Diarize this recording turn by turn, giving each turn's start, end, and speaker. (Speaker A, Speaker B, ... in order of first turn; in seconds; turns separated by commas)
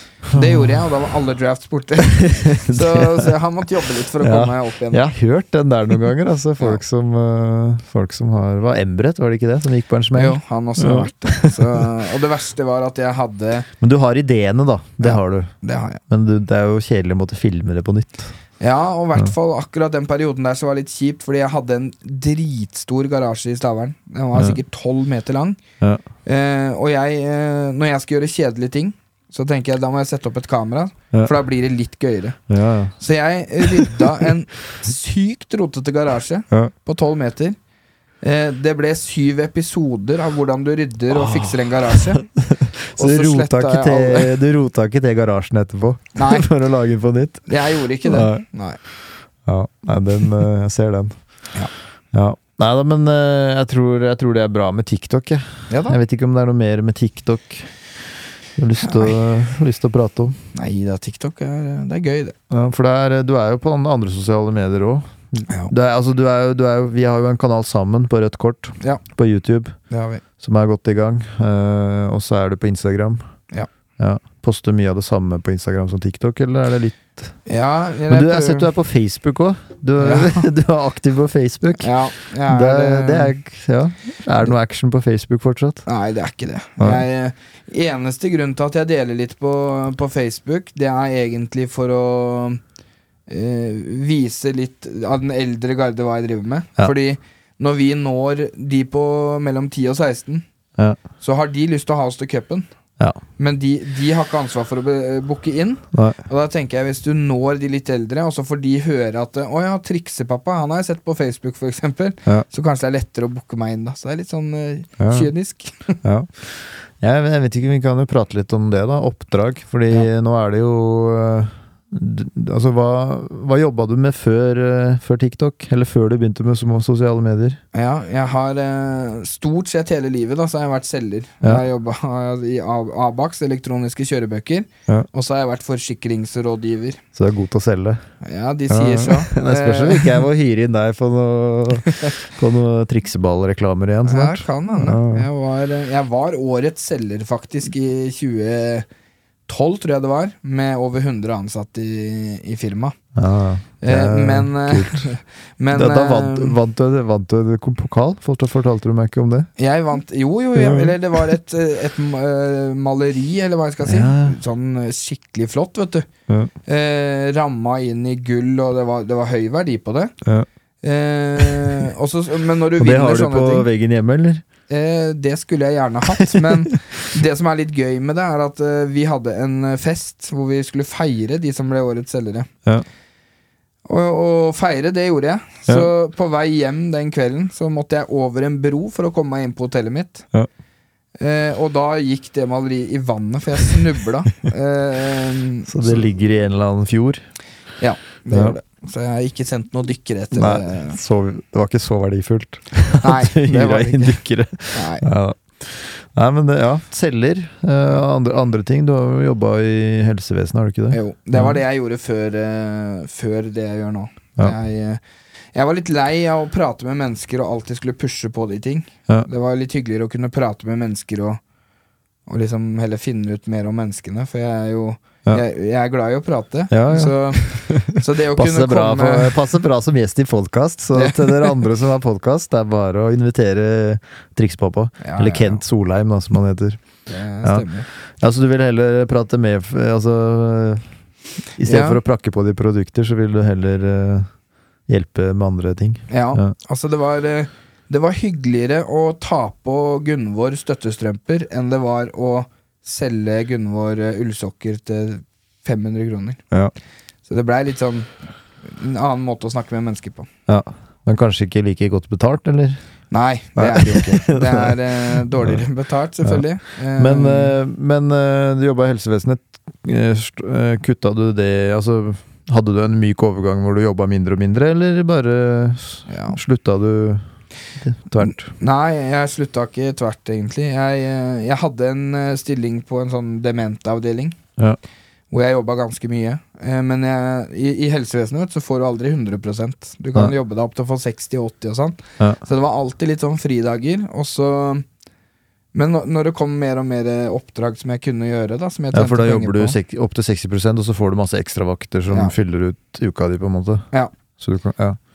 Speaker A: 0.2-0.8, Speaker B: 0.3-5.1, Speaker A: 2.1-3.4, Speaker A: 4.2-11.9, Speaker B: 10.1-13.7, Speaker A: 13.8-15.5, Speaker B: 15.0-16.0, Speaker A: 16.1-18.3, Speaker B: 18.6-25.6, Speaker B: 26.2-32.4, Speaker A: 32.5-33.0, Speaker B: 33.0-37.6, Speaker A: 33.6-34.0, Speaker B: 38.2-42.2, Speaker A: 41.1-48.4, Speaker B: 43.0-44.4, Speaker B: 46.1-46.5, Speaker B: 47.5-48.8, Speaker A: 49.5-51.2, Speaker A: 52.1-57.7, Speaker B: 55.7-56.0, Speaker A: 58.6-60.4, Speaker B: 58.8-59.2, Speaker B: 60.5-62.4, Speaker A: 62.5-69.8, Speaker B: 69.9-70.2, Speaker A: 70.4-73.2, Speaker A: 74.0-77.3, Speaker B: 77.5-78.7, Speaker A: 78.1-85.8, Speaker B: 80.0-80.5, Speaker B: 81.8-83.3, Speaker B: 85.8-92.6, Speaker A: 86.8-87.0, Speaker B: 93.3-100.4, Speaker B: 101.2-102.7, Speaker B: 103.4-116.0, Speaker A: 105.9-106.2, Speaker A: 115.0-115.3, Speaker A: 116.0-127.6, Speaker B: 127.7-137.0, Speaker A: 137.1-138.0, Speaker B: 138.2-140.2, Speaker A: 138.7-145.2, Speaker B: 141.9-142.1, Speaker B: 144.0-148.9, Speaker B: 149.5-152.9, Speaker A: 153.1-155.1, Speaker B: 153.8-156.6, Speaker A: 155.7-159.5, Speaker B: 159.6-166.1, Speaker A: 160.6-160.9, Speaker A: 163.8-164.4, Speaker B: 166.7-170.1, Speaker B: 170.8-173.7, Speaker A: 172.8-174.4, Speaker B: 174.7-182.5, Speaker A: 176.1-177.1, Speaker B: 183.8-190.2, Speaker B: 191.2-196.1, Speaker A: 195.7-197.2, Speaker B: 197.8-201.0, Speaker A: 198.3-198.6, Speaker A: 200.3-211.6, Speaker B: 203.0-204.2, Speaker B: 204.7-205.1, Speaker B: 210.9-215.0, Speaker B: 215.5-221.4, Speaker B: 222.3-229.5, Speaker A: 226.7-236.8, Speaker B: 230.9-231.6, Speaker B: 235.0-235.6, Speaker B: 237.1-237.9, Speaker A: 238.2-240.8, Speaker A: 241.5-244.3, Speaker B: 241.6-242.0, Speaker A: 244.9-246.5, Speaker B: 246.1-256.4, Speaker B: 257.2-260.3, Speaker A: 260.5-262.8, Speaker B: 263.1-267.5, Speaker A: 263.6-265.6, Speaker A: 267.0-277.2, Speaker B: 276.1-276.4, Speaker A: 277.8-278.5, Speaker B: 278.2-284.4, Speaker B: 285.3-294.9, Speaker B: 295.7-299.8, Speaker A: 298.9-303.9, Speaker A: 304.4-305.0